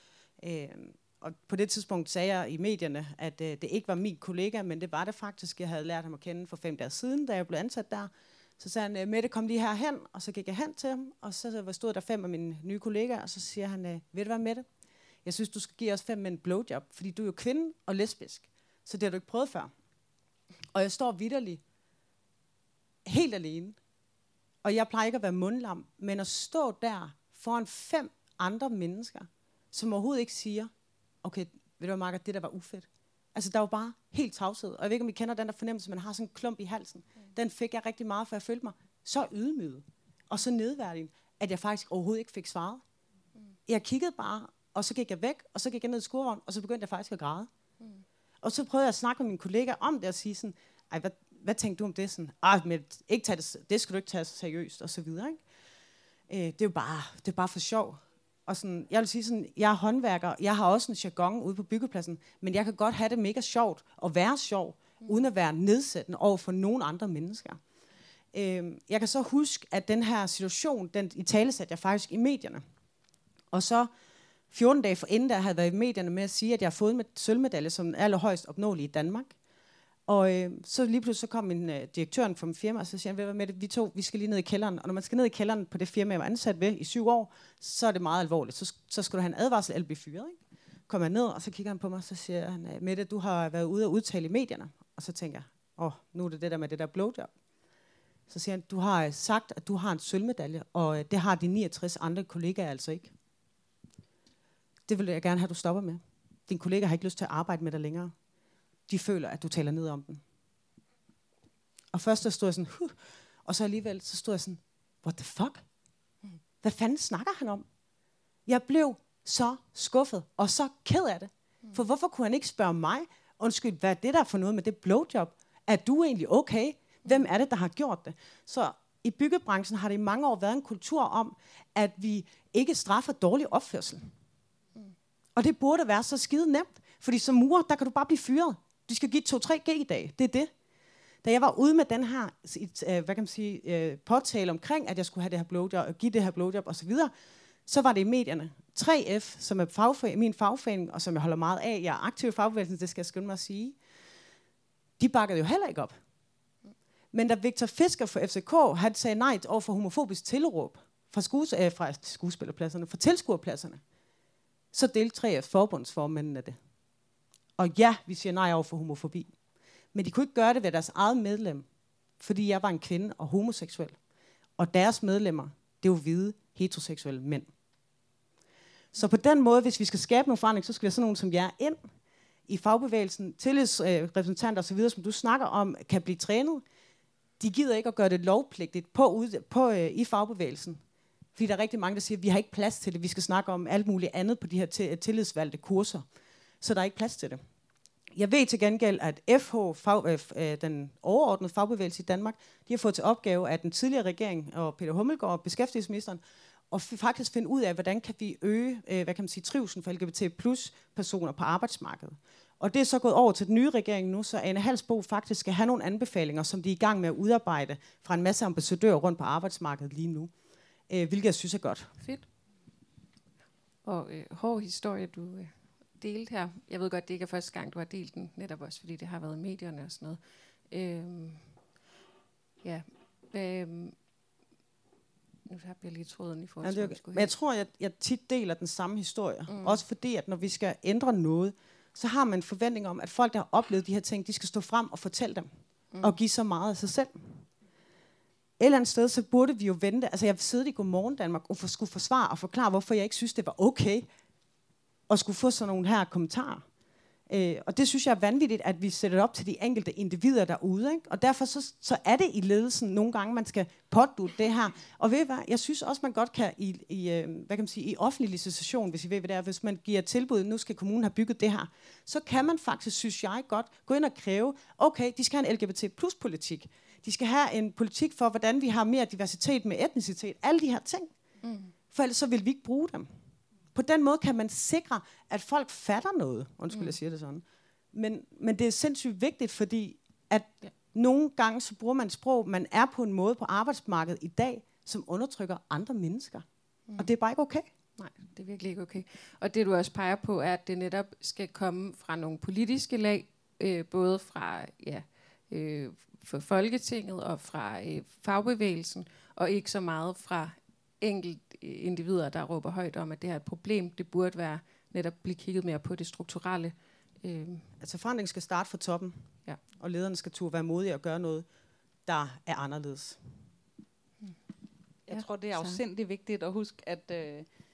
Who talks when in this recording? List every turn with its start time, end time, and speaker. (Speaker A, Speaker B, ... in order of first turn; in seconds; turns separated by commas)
Speaker A: 0.4-14.7, Speaker A: 15.2-19.7, Speaker A: 20.7-21.6, Speaker A: 23.0-23.8, Speaker A: 24.6-30.7, Speaker A: 31.2-42.8, Speaker A: 43.6-47.5, Speaker A: 48.4-55.4, Speaker A: 56.3-67.6, Speaker A: 68.3-72.6, Speaker A: 73.5-73.9, Speaker A: 74.5-79.3, Speaker A: 80.1-97.3, Speaker A: 98.3-103.1, Speaker A: 104.9-108.1, Speaker A: 108.9-110.2, Speaker A: 111.9-115.6, Speaker A: 116.6-117.6, Speaker A: 118.5-134.1, Speaker A: 135.3-140.5, Speaker A: 141.2-147.1, Speaker A: 147.7-153.8, Speaker A: 155.0-156.0, Speaker A: 157.1-163.8, Speaker A: 164.7-166.6, Speaker A: 167.6-169.3, Speaker A: 169.9-171.7, Speaker A: 172.2-174.0, Speaker A: 174.6-177.5, Speaker A: 178.9-181.8, Speaker A: 182.5-186.6, Speaker A: 187.4-190.8, Speaker A: 191.3-196.0, Speaker A: 196.6-197.4, Speaker A: 198.1-220.3, Speaker A: 220.9-221.9, Speaker B: 222.0-222.3, Speaker B: 223.8-230.2, Speaker B: 230.7-231.6, Speaker B: 232.6-233.9, Speaker B: 235.5-237.3, Speaker A: 236.6-245.5, Speaker B: 239.5-239.8, Speaker B: 245.9-246.2, Speaker A: 246.0-247.4, Speaker A: 248.6-254.1, Speaker A: 255.1-256.6, Speaker A: 257.3-281.1, Speaker B: 281.4-281.7, Speaker A: 281.9-283.1, Speaker A: 283.7-296.4, Speaker B: 286.7-286.9, Speaker A: 297.0-297.6, Speaker B: 298.0-317.7, Speaker A: 317.8-321.5, Speaker A: 322.1-323.2, Speaker C: 325.1-327.4, Speaker B: 325.1-325.8